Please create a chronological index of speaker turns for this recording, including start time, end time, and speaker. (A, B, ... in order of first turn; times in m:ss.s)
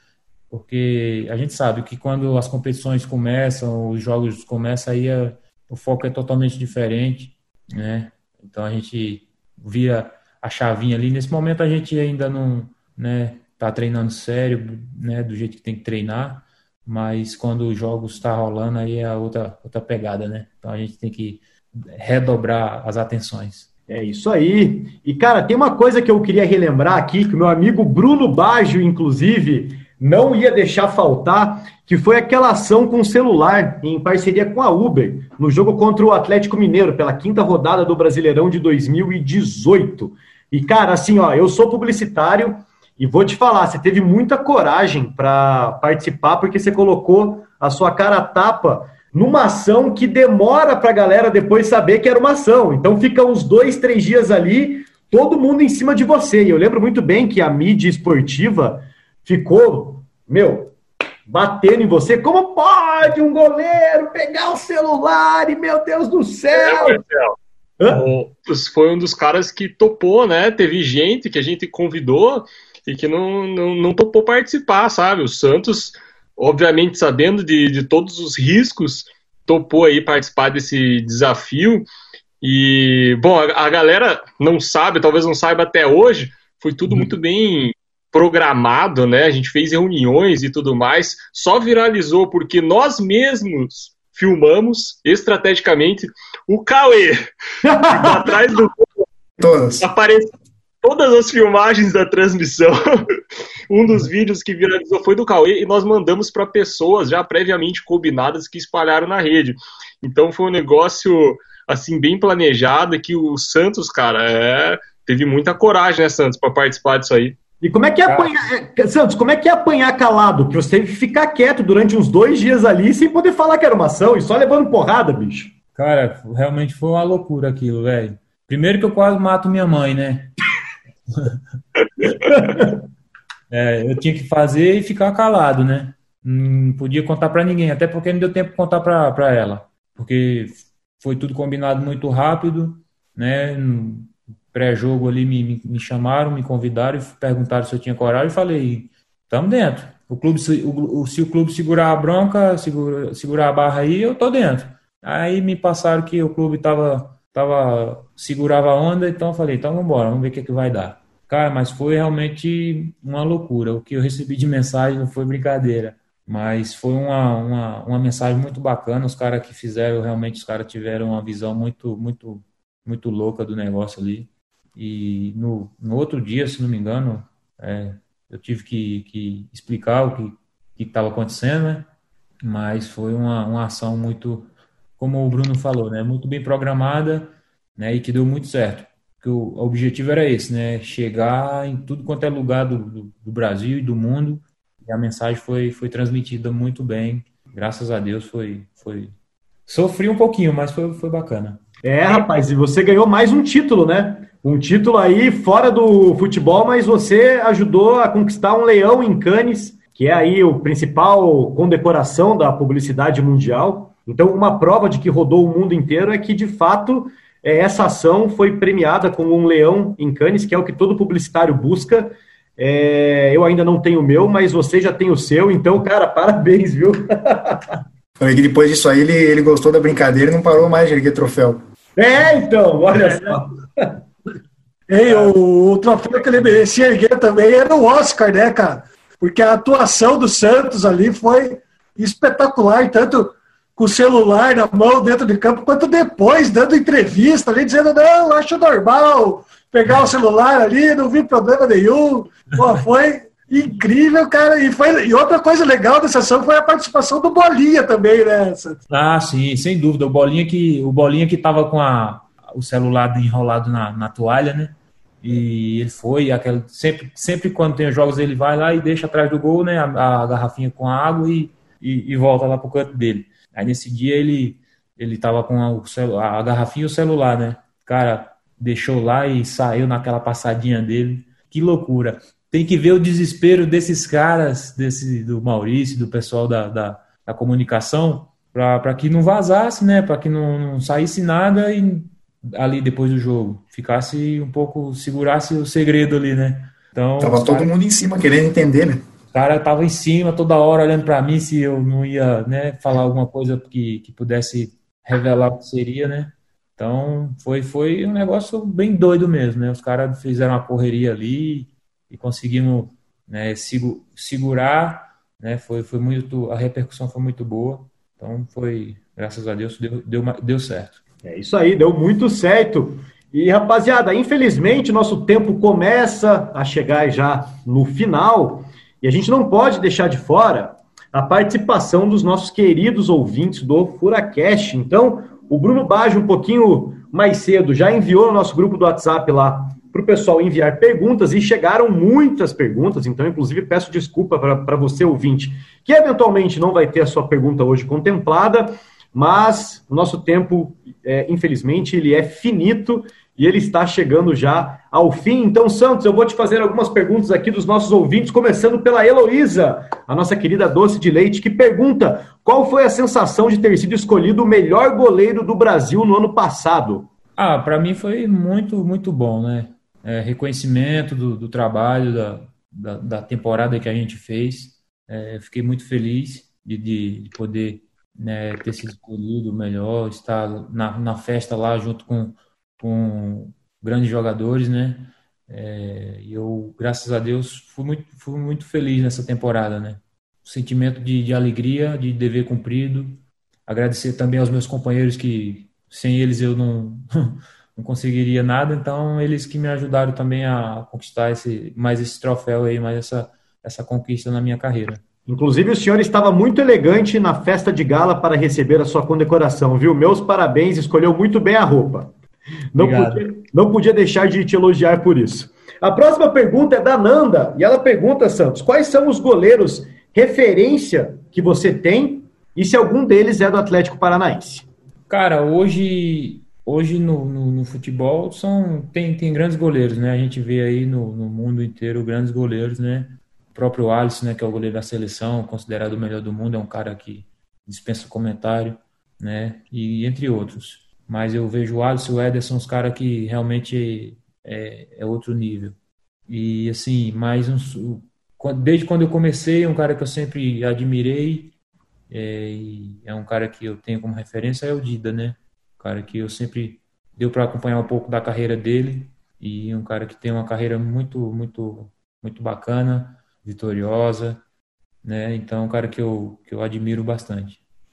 0:00.5-0:23.7 A
0:23.9-1:00.7 B
1:01.3-1:07.0 B
1:06.5-1:07.4 C
1:07.8-1:08.1 B
1:07.9-1:21.9 C
1:22.4-1:37.2 C
1:37.7-1:38.2 B
1:37.8-1:38.8 C
1:39.4-1:39.8 D
1:39.8-1:40.3 C
1:40.8-1:43.0 C
1:43.7-1:57.4 C
1:57.6-2:05.5 B
2:05.8-2:10.3 A
2:12.2-2:12.7 A
2:13.5-3:01.9 A
3:02.4-3:19.1 A
3:19.7-3:21.6 A
3:21.8-3:47.8 B
3:48.2-3:51.6 D
3:52.0-3:54.0 B
3:53.0-3:53.4 E
3:54.9-4:18.8 E
4:18.9-4:57.7 A
4:57.2-4:59.0 D
4:59.3-5:21.0 A
5:21.2-6:07.1 B
6:07.4-6:45.0 A
6:45.3-6:52.1 B
6:52.7-7:04.7 B
6:52.8-6:53.3 A
7:05.1-7:25.8 A
7:26.3-7:31.5 A
7:32.1-7:44.4 A
7:45.0-7:47.6 A